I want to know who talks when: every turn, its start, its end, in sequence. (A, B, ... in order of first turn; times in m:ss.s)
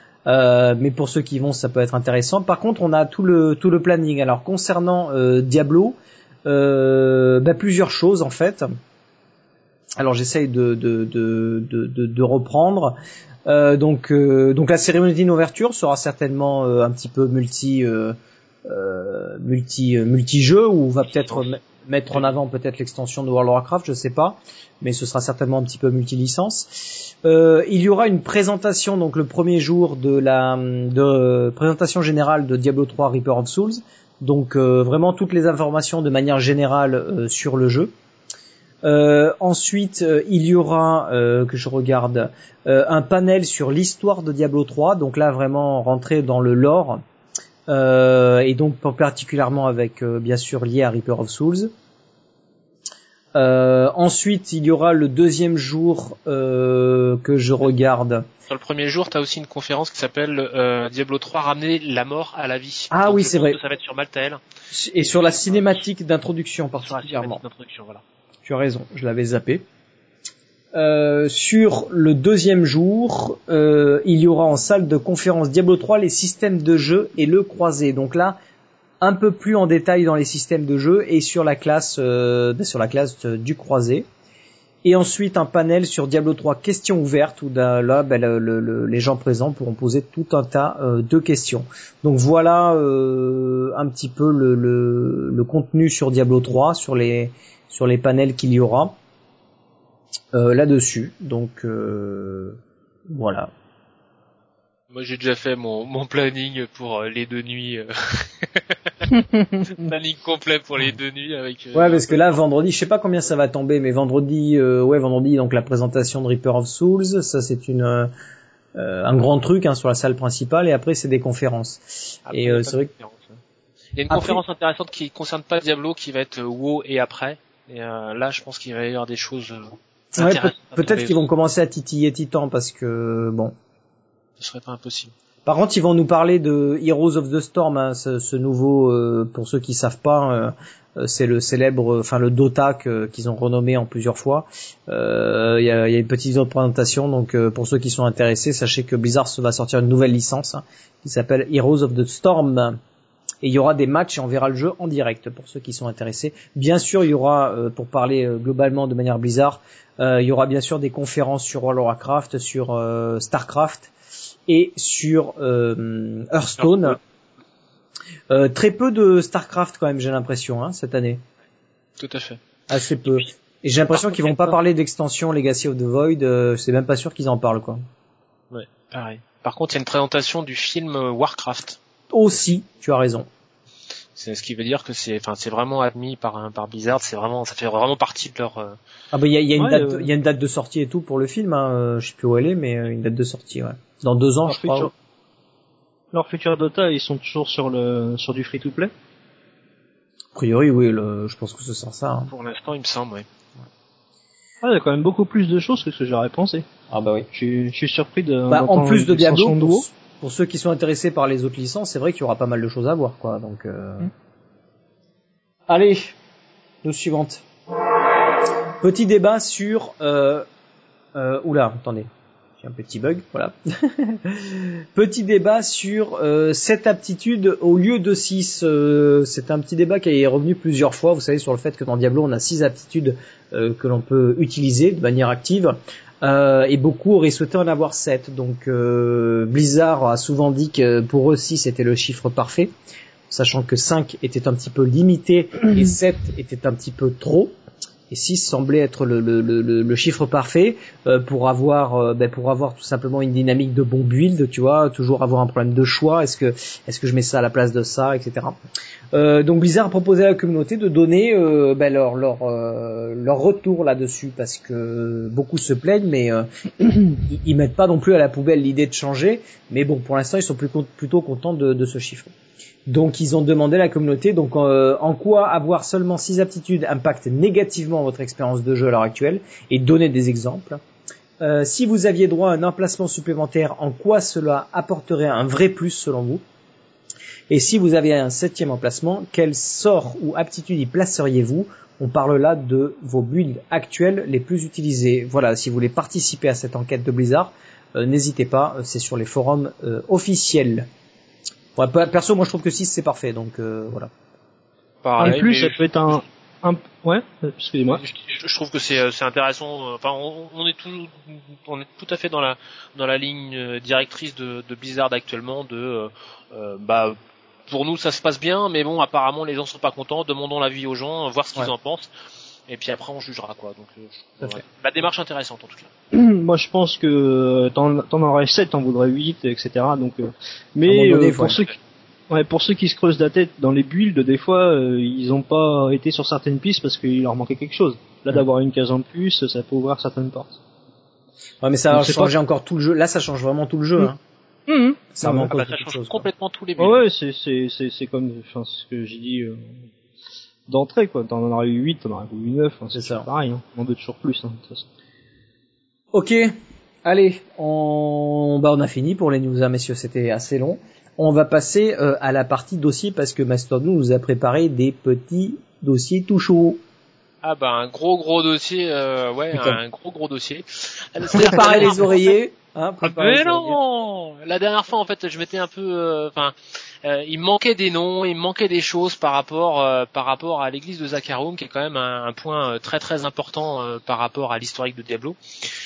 0:00.3-0:08.7 A
0:10.0-0:37.9 A
0:21.1-0:21.5 B
0:38.8-0:47.0 A
0:47.7-0:51.7 A
0:53.3-0:58.3 A
0:58.5-1:04.4 B
1:02.9-1:03.6 A
1:04.7-1:07.4 A
1:05.4-1:05.8 B
1:06.8-1:08.0 B
1:08.4-1:09.6 A
1:10.7-1:18.4 A
1:19.0-1:24.1 A
1:24.8-1:39.0 A
1:40.3-1:43.5 A
1:44.9-1:48.9 B
1:49.6-1:52.4 B
1:51.7-1:58.1 A
1:58.8-2:02.9 A
2:02.3-2:03.4 B
2:04.0-2:11.2 B
2:04.1-2:04.4 A
2:10.2-2:13.5 A
2:14.4-2:15.1 B
2:15.5-2:32.8 A
2:33.4-2:43.9 A
2:44.5-2:47.0 A
2:46.6-2:47.0 B
2:48.3-2:51.2 A
2:52.0-2:52.4 B
2:52.7-2:57.8 A
2:53.9-2:54.5 B
2:58.5-3:01.8 B
3:02.1-3:03.3 A
3:04.2-3:08.8 B
3:09.1-3:14.9 A
3:09.6-3:10.1 C
3:14.5-3:14.9 C
3:16.1-3:18.9 C
3:20.4-3:22.3 A
3:22.3-3:23.3 B
3:24.6-3:26.6 C
3:26.9-3:27.3 A
3:27.3-3:29.9 C
3:28.5-3:34.1 A
3:35.7-3:36.2 A
3:36.8-3:37.4 A
3:38.8-3:40.5 A
3:41.2-3:42.1 A
3:42.6-4:02.7 A
4:03.3-4:07.6 A
4:08.1-4:18.6 A
4:19.1-4:32.3 A
4:32.9-4:40.8 A
4:41.4-4:46.4 A
4:47.5-5:00.9 A
5:01.8-5:04.1 A
5:05.0-5:06.2 B
5:05.2-5:08.0 C
5:08.0-5:17.2 B
5:17.7-5:22.1 B
5:22.7-5:25.9 B
5:26.1-5:31.8 C
5:30.9-5:31.6 A
5:32.3-5:40.6 C
5:41.6-5:44.2 A
5:41.9-5:42.3 C
5:44.7-5:45.5 C
5:45.2-5:46.3 A
5:45.5-5:47.0 B
5:46.8-5:49.9 C
5:50.7-5:54.9 C
5:52.9-5:53.3 A
5:56.1-6:06.8 A
6:07.4-6:12.3 B
6:09.5-6:09.8 A
6:11.2-6:13.8 A
6:13.0-6:25.4 B